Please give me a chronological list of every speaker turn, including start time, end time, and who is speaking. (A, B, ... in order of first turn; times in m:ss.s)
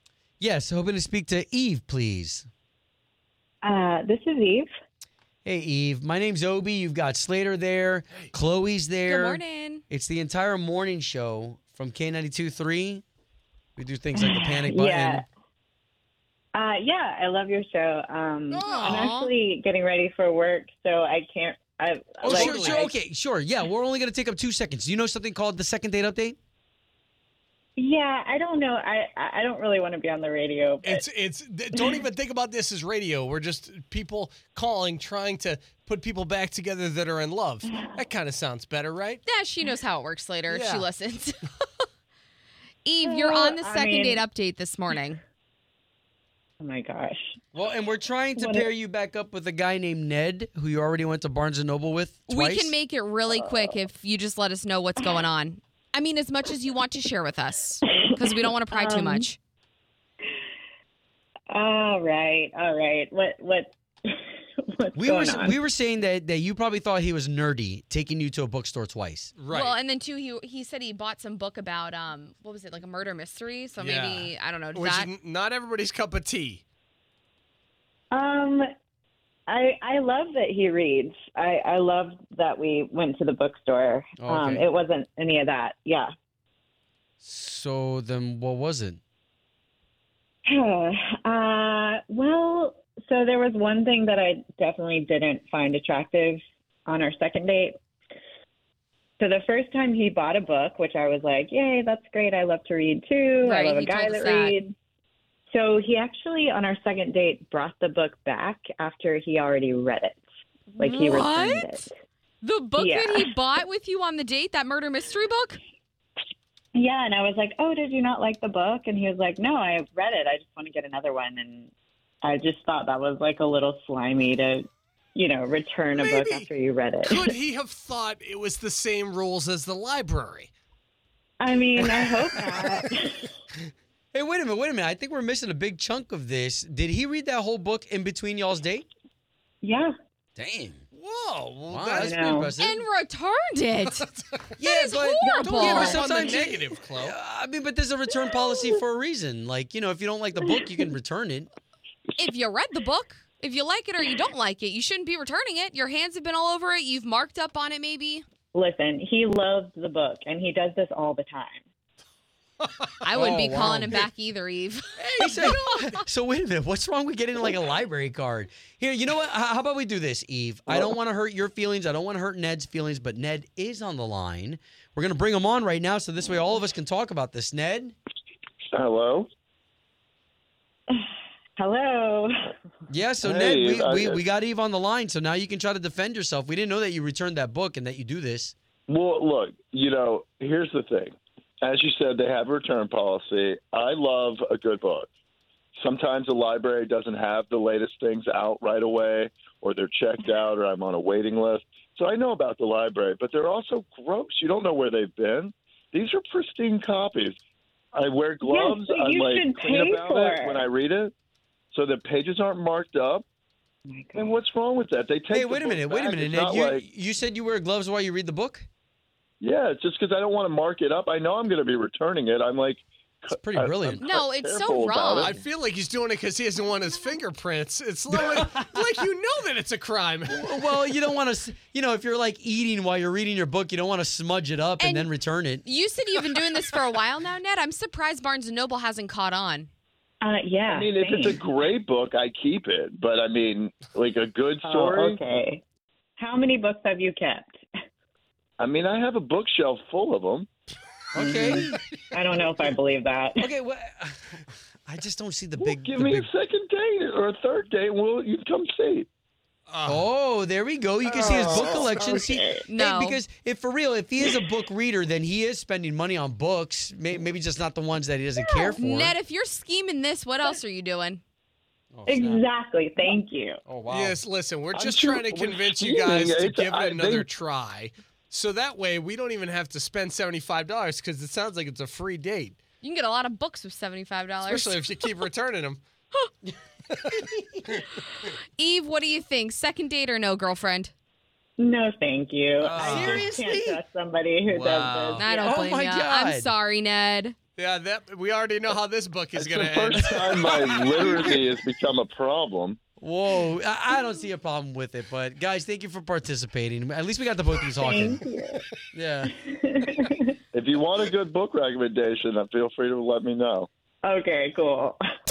0:00.4-0:02.5 A
0:03.6-0:04.7 B
0:05.4-0:13.0 A
0:09.1-0:09.8 C
0:13.8-0:15.2 A
0:14.2-0:15.2 B
0:16.5-0:22.9 B
0:18.5-0:19.1 D
0:18.6-0:19.3 C
0:22.2-0:22.9 D
0:22.2-0:26.4 A
0:27.8-0:31.0 B
0:30.8-0:39.2 D
0:39.3-0:41.4 C
0:40.5-0:40.9 D
0:42.8-0:45.2 C
0:43.0-0:44.2 B
0:46.6-0:47.3 B
0:47.5-0:52.8 A
0:48.4-0:48.7 B
0:52.3-0:59.4 C
0:58.7-0:59.2 B
1:01.5-1:04.2 B
1:04.8-1:05.6 B
1:05.0-1:09.3 A
1:09.4-1:09.8 D
1:09.5-1:15.1 C
1:13.8-1:16.6 D
1:18.1-1:18.6 B
1:19.5-1:26.1 B
1:24.2-1:24.6 A
1:27.2-1:29.0 A
1:30.5-1:37.7 B
1:39.2-1:44.7 B
1:43.4-1:44.6 C
1:45.5-1:50.2 B
1:50.7-1:51.8 C
1:50.8-1:51.9 B
1:52.4-1:55.6 C
1:52.8-1:53.3 B
1:56.8-2:01.7 B
2:02.2-2:07.3 B
2:05.9-2:06.5 D
2:07.0-2:10.5 D
2:11.4-2:13.3 B
2:11.8-2:12.8 A
2:14.1-2:18.8 A
2:19.6-2:19.9 B
2:20.4-2:20.8 A
2:20.9-2:22.2 D
2:21.7-2:22.8 A
2:22.0-2:22.5 B
2:22.6-2:24.0 C
2:23.8-2:24.5 D
2:24.6-2:31.5 A
2:24.6-2:25.9 C
2:25.2-2:26.0 B
2:25.4-2:27.1 D
2:32.2-2:38.2 C
2:38.5-2:41.6 B
2:42.6-2:43.1 D
2:43.0-2:44.8 C
2:43.1-2:44.1 A
2:45.0-2:57.9 A
2:45.1-2:45.7 D
2:45.4-2:45.8 C
2:58.7-2:59.3 E
3:01.6-3:02.5 B
3:02.9-3:08.5 A
3:03.2-3:04.2 E
3:08.9-3:15.1 E
3:15.7-3:27.4 E
3:27.9-3:31.1 E
3:28.4-3:30.6 B
3:31.7-3:33.2 E
3:33.9-3:34.4 B
3:34.1-3:36.8 E
3:35.3-3:38.6 A
3:39.4-3:45.4 E
3:43.4-3:44.0 A
3:44.0-3:45.2 C
3:45.2-3:50.7 D
3:50.3-3:55.6 A
3:54.8-3:55.1 C
3:55.6-3:59.7 C
4:00.2-4:01.4 B
4:00.7-4:05.2 E
4:04.6-4:05.6 B
4:06.2-4:07.5 B
4:08.6-4:10.5 E
4:11.1-4:11.8 A
4:11.1-4:13.5 B
4:13.4-4:16.3 A
4:15.6-4:19.1 E
4:19.7-4:20.0 D
4:19.8-4:29.2 A
4:21.0-4:21.9 E
4:21.1-4:22.6 B
4:22.7-4:23.2 C
4:28.4-4:28.7 B
4:28.8-4:31.2 C
4:31.9-4:32.4 A
4:32.0-4:33.6 B
4:33.6-4:34.2 A
4:33.9-4:42.6 D
4:34.7-4:37.3 E
4:42.8-4:44.8 C
4:44.4-4:45.8 D
4:47.0-4:47.7 A
4:48.1-4:50.9 C
4:51.6-4:55.6 B
4:52.6-4:53.3 D
4:52.7-4:53.8 A
4:54.5-4:55.3 D
4:55.2-4:57.4 C
4:55.3-4:56.5 A
4:57.5-5:00.7 D
4:59.4-5:02.8 E
5:00.0-5:01.4 A
5:03.0-5:08.2 A
5:07.8-5:08.6 B
5:08.9-5:09.3 A
5:09.4-5:10.1 B
5:10.5-5:13.7 E
5:14.0-5:15.0 B